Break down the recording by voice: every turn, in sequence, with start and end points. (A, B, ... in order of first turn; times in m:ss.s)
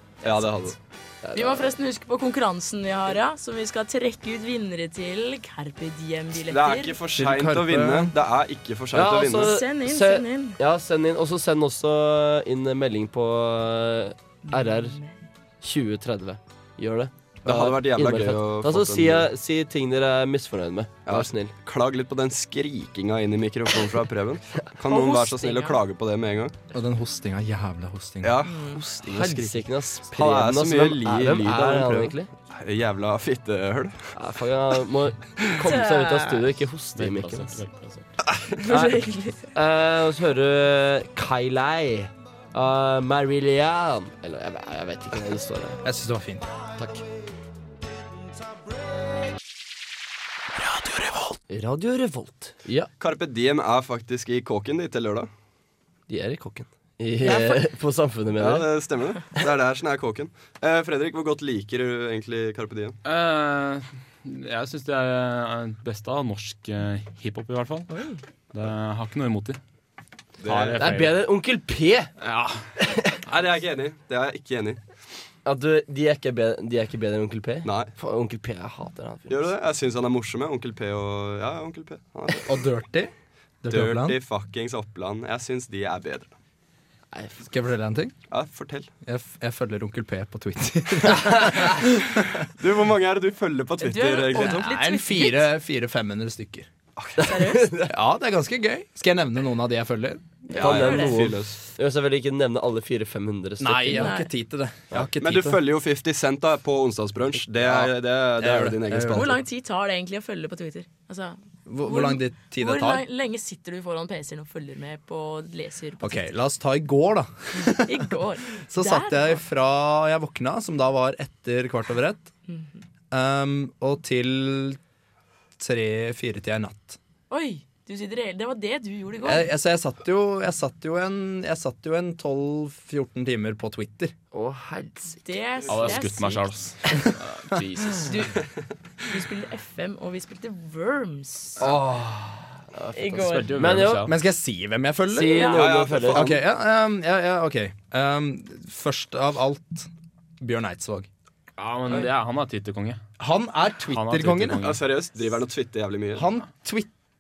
0:00.2-0:00.5 A
0:00.2-0:00.8 B
0:01.2-0:01.7 C
0:01.3-0:07.0 A
0:06.3-0:09.6 B
0:07.2-0:08.1 D
0:08.9-0:15.0 C
0:09.3-0:10.6 A
0:14.5-0:15.1 A
0:15.6-0:21.5 C
0:17.4-0:19.3 B
0:21.0-0:26.5 B
0:24.9-0:25.8 A
0:26.7-0:28.4 D
0:28.2-0:34.1 B
0:28.4-0:28.8 A
0:29.0-0:32.3 C
0:34.1-0:37.6 C
0:35.6-0:36.4 A
0:37.0-0:38.1 E
0:38.6-0:39.4 A
0:38.7-0:39.0 C
0:39.5-0:45.8 C
0:45.8-0:46.5 D
0:46.8-0:47.0 C
0:50.6-0:51.4 D
0:51.5-0:52.9 C
0:53.0-0:55.3 B
0:56.1-0:58.7 C
0:57.2-0:57.6 A
0:58.4-1:03.0 B
1:03.0-1:08.0 E
1:07.9-1:08.2 A
1:08.5-1:09.6 E
1:10.4-1:10.8 B
1:10.4-1:11.2 E
1:10.8-1:12.1 C
1:12.2-1:12.6 E
1:12.8-1:13.1 C
1:13.2-1:14.8 B
1:15.4-1:19.5 C
1:17.6-1:17.9 B
1:19.3-1:22.6 B
1:22.4-1:23.1 D
1:23.6-1:24.2 D
1:23.7-1:26.3 B
1:27.1-1:27.5 C
1:27.5-1:28.1 D
1:28.3-1:28.9 B
1:29.0-1:31.9 D
1:32.6-1:34.7 B
1:33.8-1:35.4 A
1:34.4-1:36.7 D
1:37.0-1:37.3 B
1:37.2-1:37.9 C
1:37.2-1:37.7 A
1:37.9-1:40.4 D
1:40.5-1:41.3 A
1:40.5-1:41.6 B
1:40.5-1:44.1 C
1:43.6-1:45.6 D
1:43.9-1:44.3 A
1:44.9-1:49.4 B
1:47.6-1:49.4 D
1:49.1-1:56.2 A
1:51.7-1:53.0 D
1:56.0-2:02.3 D
1:57.6-1:59.4 A
2:02.5-2:02.8 A
2:03.1-2:04.8 D
2:05.6-2:07.0 D
2:07.3-2:09.4 A
2:09.2-2:14.1 D
2:14.3-2:15.4 C
2:15.2-2:16.5 A
2:15.7-2:18.2 E
2:18.0-2:18.4 A
2:19.1-2:21.6 A
2:21.6-2:24.1 C
2:22.9-2:23.7 A
2:23.2-2:24.1 E
2:24.0-2:25.6 D
2:25.1-2:26.3 C
2:25.3-2:25.6 A
2:25.5-2:26.4 B
2:26.1-2:29.9 D
2:30.4-2:31.1 D
2:31.6-2:33.0 E
2:33.2-2:34.6 D
2:33.9-2:34.8 E
2:34.6-2:36.3 B
2:36.1-2:36.9 D